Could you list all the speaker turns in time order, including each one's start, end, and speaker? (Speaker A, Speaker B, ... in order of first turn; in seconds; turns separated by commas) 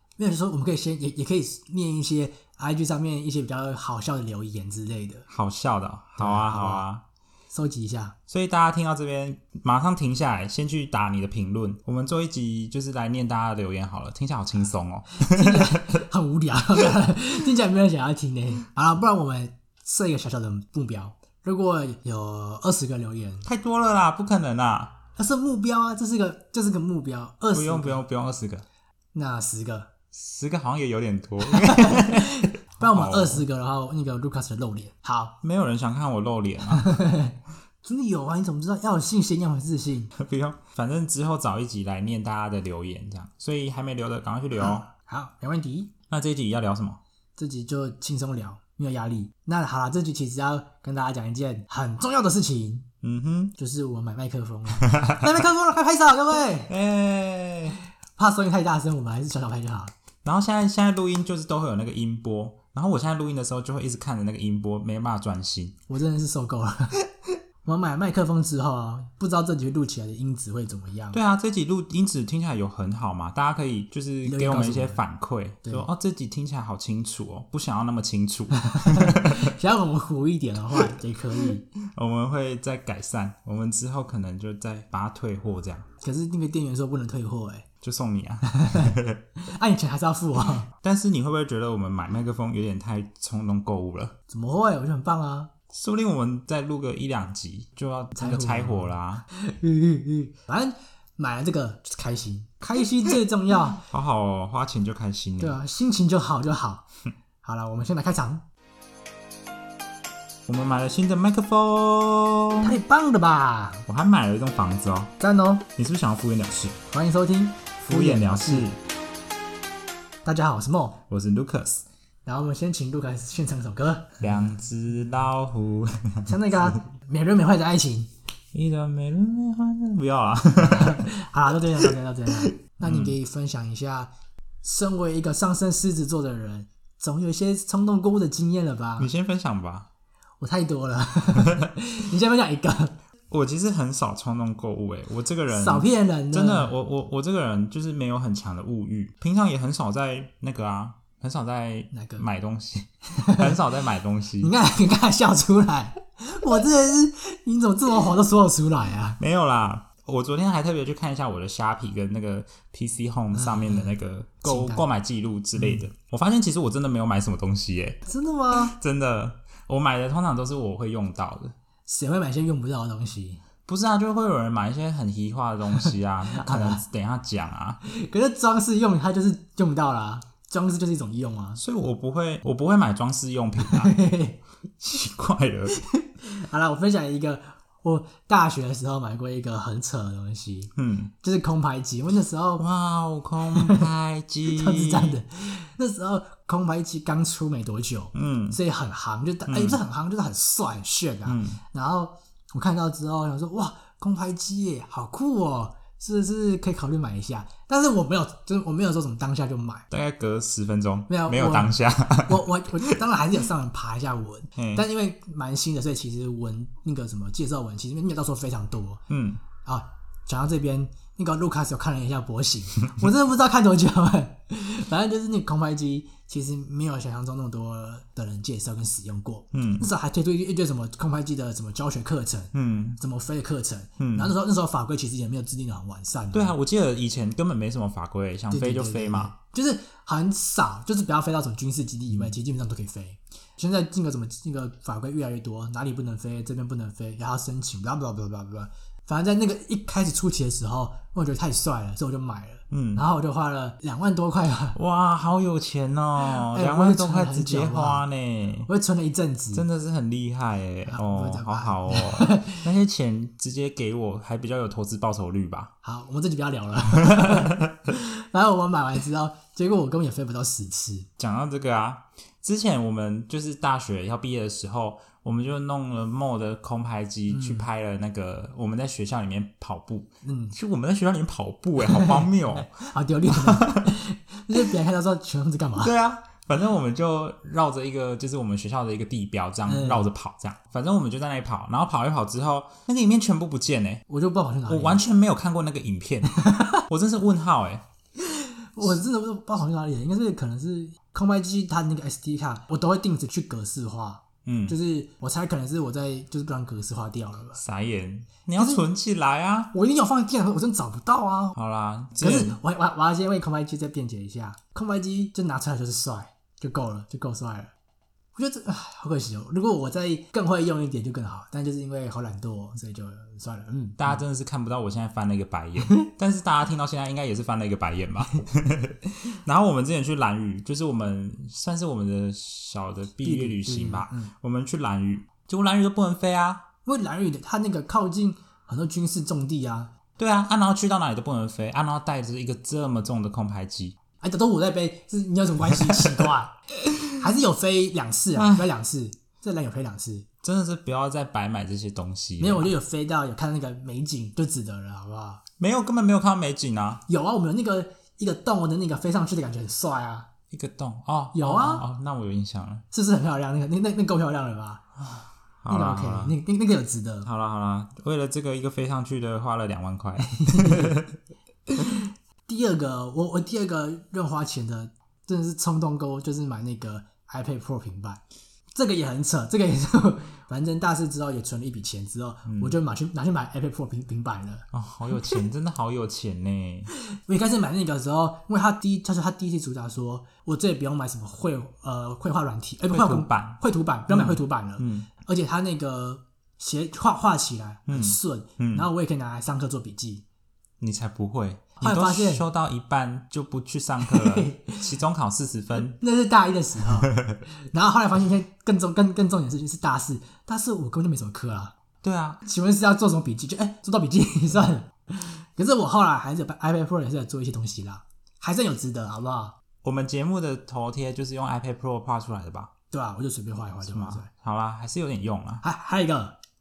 Speaker A: 0.2-5.3, Speaker B: 5.3-7.0, Speaker A: 6.2-6.8, Speaker A: 7.5-8.2, Speaker B: 8.3-16.0, Speaker A: 15.2-23.5, Speaker B: 23.4-25.0, Speaker A: 25.2-28.0, Speaker B: 27.5-28.6, Speaker A: 29.1-29.9, Speaker B: 30.1-33.4, Speaker A: 31.4-35.4, Speaker B: 35.4-37.0, Speaker A: 36.7-40.1, Speaker B: 40.2-44.9, Speaker A: 44.9-45.9, Speaker B: 46.1-47.0, Speaker A: 47.4-52.9, Speaker B: 53.0-53.5, Speaker A: 53.6-56.7, Speaker B: 54.8-55.3, Speaker B: 56.7-57.8, Speaker A: 58.2-59.9, Speaker B: 60.2-65.8, Speaker A: 65.9-67.0, Speaker A: 67.6-71.2, Speaker B: 71.1-79.5, Speaker A: 74.2-75.0, Speaker A: 78.7-81.7, Speaker B: 81.8-85.9, Speaker A: 86.0-87.7, Speaker B: 87.8-89.2, Speaker A: 88.6-90.7, Speaker B: 90.7-94.2, Speaker A: 94.3-95.5, Speaker B: 95.7-99.3, Speaker A: 98.2-103.8, Speaker B: 103.8-105.6, Speaker A: 105.4-106.9, Speaker A: 107.4-108.4, Speaker B: 110.5-112.8, Speaker A: 112.6-113.8, Speaker B: 113.9-115.1, Speaker A: 115.2-115.7, Speaker B: 115.8-116.8, Speaker A: 116.9-118.7, Speaker B: 117.9-118.8, Speaker A: 120.2-121.0, Speaker B: 121.1-121.8, Speaker A: 122.2-124.2, Speaker B: 124.2-126.7, Speaker A: 126.3-128.1, Speaker B: 128.5-131.1, Speaker A: 130.6-134.1, Speaker B: 132.3-133.2, Speaker A: 134.6-139.1, Speaker B: 139.0-139.9, Speaker A: 140.4-142.9, Speaker B: 141.4-141.7, Speaker B: 143.3-154.5, Speaker A: 145.5-146.7, Speaker A: 151.9-152.2, Speaker A: 153.2-153.6, Speaker A: 154.4-159.2, Speaker B: 159.2-171.5, Speaker A: 163.3-164.9, Speaker A: 165.6-165.8, Speaker A: 168.1-168.8, Speaker A: 171.9-173.4, Speaker B: 173.7-177.8, Speaker A: 175.8-176.8, Speaker A: 177.8-181.6, Speaker B: 181.6-184.0, Speaker A: 183.6-184.4, Speaker B: 184.8-185.8, Speaker A: 185.7-192.6, Speaker B: 190.8-191.1, Speaker B: 192.6-195.2, Speaker A: 193.5-193.9, Speaker A: 194.4-209.9, Speaker B: 198.2-198.6, Speaker B: 199.5-199.8, Speaker B: 201.3-201.6, Speaker B: 209.9-213.0, Speaker A: 211.1-219.0, Speaker B: 214.6-214.8, Speaker B: 219.1-219.4, Speaker A: 219.6-236.6, Speaker B: 229.5-229.9, Speaker B: 232.5-233.0, Speaker B: 234.0-234.3, Speaker B: 236.3-239.3, Speaker A: 238.5-254.8, Speaker B: 252.7-253.1, Speaker B: 254.7-258.7, Speaker A: 256.2-258.1, Speaker A: 258.7-259.6, Speaker B: 259.5-265.7, Speaker A: 260.9-262.6, Speaker A: 265.8-271.1, Speaker B: 266.9-267.8, Speaker B: 271.2-283.9, Speaker A: 277.3-277.6, Speaker A: 280.2-280.6, Speaker A: 281.8-285.9, Speaker B: 285.8-294.0, Speaker A: 289.7-290.1, Speaker A: 294.1-295.0, Speaker B: 294.7-297.8, Speaker A: 296.4-296.8, Speaker A: 298.2-307.6, Speaker B: 304.5-304.8, Speaker B: 307.6-309.7, Speaker A: 308.6-308.8, Speaker A: 309.7-311.6, Speaker B: 311.6-312.6, Speaker A: 312.2-317.7, Speaker A: 318.4-324.2, Speaker B: 324.0-336.6, Speaker A: 333.2-334.3, Speaker A: 336.9-339.9, Speaker B: 340.2-344.0, Speaker A: 344.2-346.5, Speaker A: 347.2-350.3, Speaker B: 348.4-348.7, Speaker B: 350.4-352.7, Speaker A: 352.4-355.4, Speaker B: 355.6-357.0, Speaker A: 357.1-360.3, Speaker B: 360.5-362.8, Speaker A: 361.3-361.9, Speaker A: 362.9-365.0, Speaker B: 365.0-366.4, Speaker A: 365.7-367.3, Speaker B: 367.2-371.2, Speaker A: 370.2-371.0, Speaker A: 371.8-378.2, Speaker A: 378.7-384.6, Speaker B: 382.5-382.8, Speaker B: 384.7-386.9, Speaker A: 387.1-400.2, Speaker B: 392.9-395.1, Speaker B: 397.9-398.9, Speaker B: 400.8-406.0, Speaker A: 401.8-402.4, Speaker A: 404.0-404.8, Speaker A: 405.8-407.1, Speaker B: 407.0-407.4, Speaker A: 407.7-411.7, Speaker B: 412.0-412.4, Speaker A: 412.4-419.6, Speaker B: 419.8-422.7, Speaker A: 422.9-424.3, Speaker B: 423.9-425.6, Speaker A: 425.6-426.4